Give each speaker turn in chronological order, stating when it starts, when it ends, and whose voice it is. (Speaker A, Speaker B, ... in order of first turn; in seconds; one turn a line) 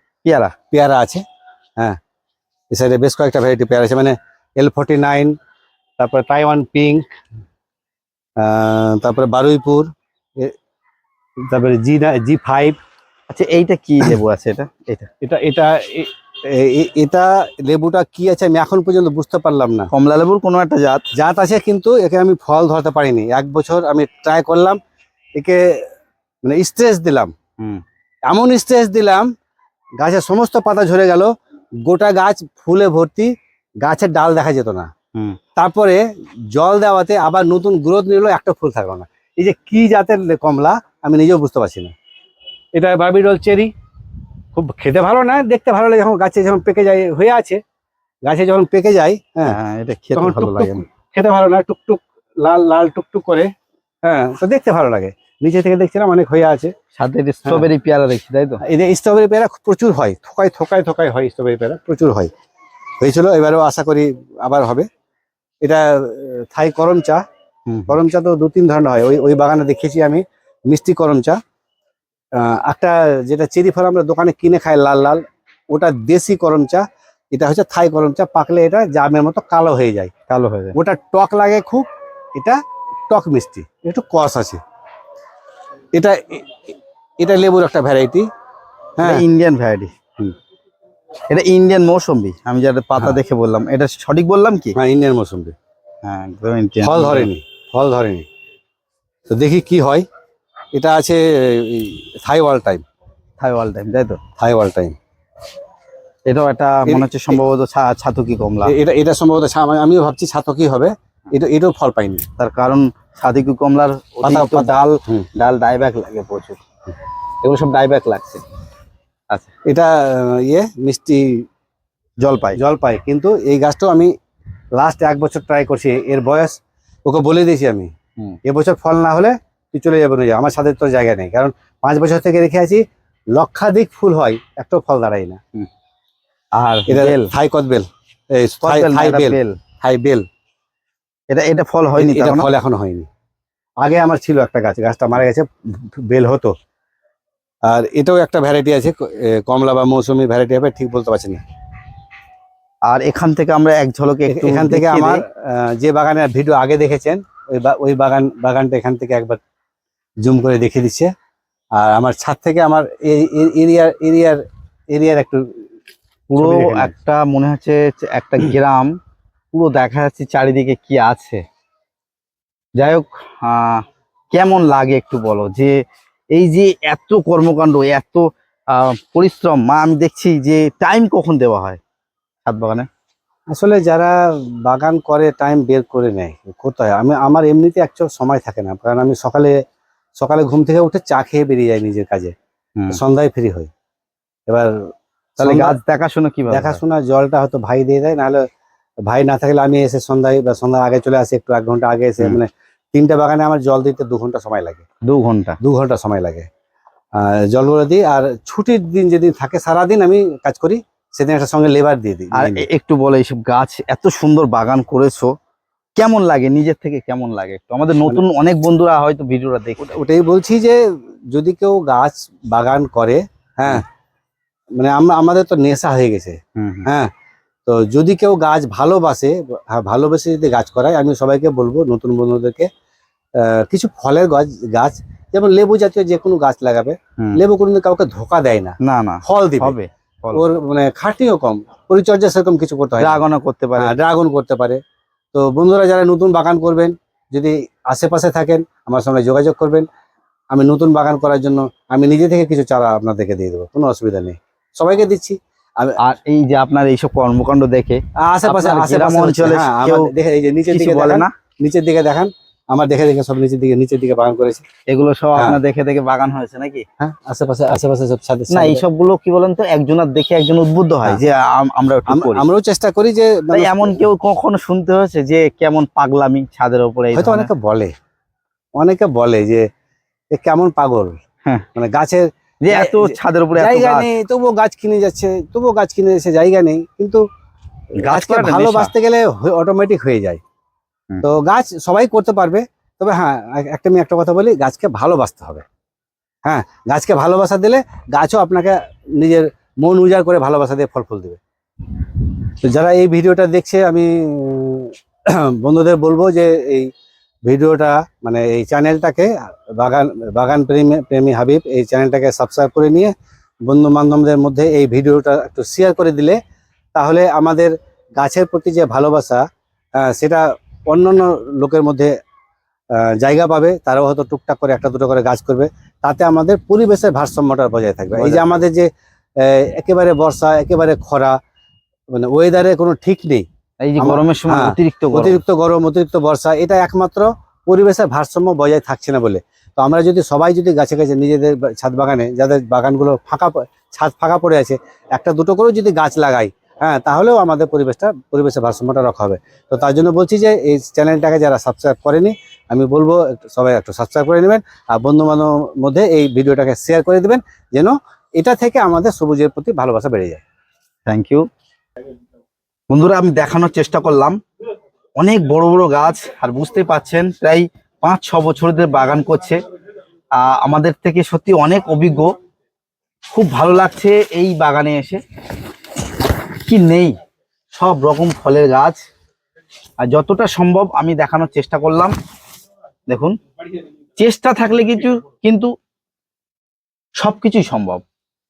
Speaker A: 0.2-0.5
Speaker B: 0.7-1.2
Speaker B: 2.7-5.3
Speaker B: 6.0-7.0
Speaker B: 8.4-10.5
Speaker B: 11.5-12.8
Speaker A: 13.3-15.1
Speaker B: 15.2-19.9
Speaker A: 19.9-21.1
Speaker B: 21.1-24.8
Speaker B: 25.4-25.6
Speaker B: 26.4-27.3
Speaker B: 28.3-29.3
Speaker B: 30.0-31.3
Speaker B: 31.9-33.3
Speaker B: 33.8-34.9
Speaker B: 35.5-41.9
Speaker B: 42.7-43.7
Speaker B: 44.5-47.6
Speaker B: 48.2-49.6
Speaker A: 49.4-50.8
Speaker B: 50.1-53.5
Speaker B: 54.0-56.7
Speaker A: 57.0-58.6
Speaker B: 58.6-62.3
Speaker B: 63.0-64.9
Speaker B: 65.6-67.2
Speaker A: 67.7-68.0
Speaker B: 67.9-71.4
Speaker B: 72.3-80.1
Speaker A: 80.3-80.8
Speaker B: 80.7-84.6
Speaker B: 85.9-88.3
Speaker B: 89.0-89.2
Speaker A: 89.0-90.0
Speaker A: 91.3-94.8
Speaker B: 94.8-95.5
Speaker A: 96.0-97.3
Speaker B: 96.8-98.2
Speaker B: 99.3-100.0
Speaker B: 100.7-102.8
Speaker A: 103.4-104.2
Speaker B: 104.4-105.0
Speaker A: 106.2-108.7
Speaker B: 106.9-107.4
Speaker B: 108.6-112.2
Speaker A: 112.4-116.6
Speaker B: 114.2-115.2
Speaker A: 117.4-118.4
Speaker B: 119.6-121.4
Speaker A: 122.2-122.6
Speaker B: 122.6-124.1
Speaker B: 124.8-127.9
Speaker B: 128.4-132.8
Speaker B: 133.3-135.4
Speaker A: 136.5-137.3
Speaker B: 136.9-140.2
Speaker A: 138.6-139.6
Speaker A: 141.3-142.5
Speaker B: 142.0-143.1
Speaker B: 143.8-146.5
Speaker B: 147.7-151.4
Speaker A: 152.9-155.2
Speaker B: 154.3-159.4
Speaker B: 160.2-161.1
Speaker B: 161.8-165.4
Speaker A: 166.3-168.9
Speaker B: 166.3-166.9
Speaker A: 169.5-171.4
Speaker A: 172.8-175.8
Speaker A: 176.3-181.8
Speaker A: 182.4-182.9
Speaker B: 183.5-189.6
Speaker B: 190.2-192.3
Speaker B: 192.9-193.7
Speaker B: 194.5-195.8
Speaker A: 195.4-196.8
Speaker B: 196.5-198.4
Speaker B: 199.1-204.8
Speaker A: 205.0-205.6
Speaker B: 205.6-206.5
Speaker B: 207.1-212.7
Speaker A: 212.3-215.3
Speaker A: 215.9-220.0
Speaker B: 219.8-223.8
Speaker B: 224.7-227.1
Speaker A: 226.6-226.9
Speaker B: 227.7-232.7
Speaker B: 233.3-239.7
Speaker A: 238.8-240.4
Speaker B: 240.3-243.2
Speaker A: 243.0-243.9
Speaker B: 243.8-244.8
Speaker B: 245.3-249.9
Speaker B: 250.5-256.0
Speaker A: 256.0-260.1
Speaker B: 258.3-264.6
Speaker A: 260.7-261.3
Speaker A: 264.9-266.9
Speaker B: 267.0-268.8
Speaker A: 268.5-272.4
Speaker B: 272.1-274.0
Speaker A: 273.5-277.5
Speaker B: 277.1-277.9
Speaker B: 278.8-279.7
Speaker B: 280.3-281.2
Speaker B: 281.7-287.2
Speaker A: 282.6-284.1
Speaker A: 288.0-288.9
Speaker B: 288.0-290.4
Speaker B: 291.2-295.6
Speaker B: 296.4-301.4
Speaker B: 302.5-306.9
Speaker B: 307.4-313.1
Speaker B: 313.7-316.4
Speaker B: 316.9-319.4
Speaker B: 320.0-322.1
Speaker B: 322.9-331.4
Speaker A: 328.2-328.4
Speaker B: 332.1-333.4
Speaker A: 333.8-335.4
Speaker B: 334.0-360.4
Speaker A: 361.1-361.5
Speaker A: 362.9-364.4
Speaker A: 365.2-369.6
Speaker A: 370.3-372.3
Speaker A: 373.3-375.2
Speaker A: 376.6-377.2
Speaker A: 377.7-379.0
Speaker A: 380.0-382.1
Speaker A: 383.1-383.4
Speaker A: 384.2-385.7
Speaker A: 387.2-388.0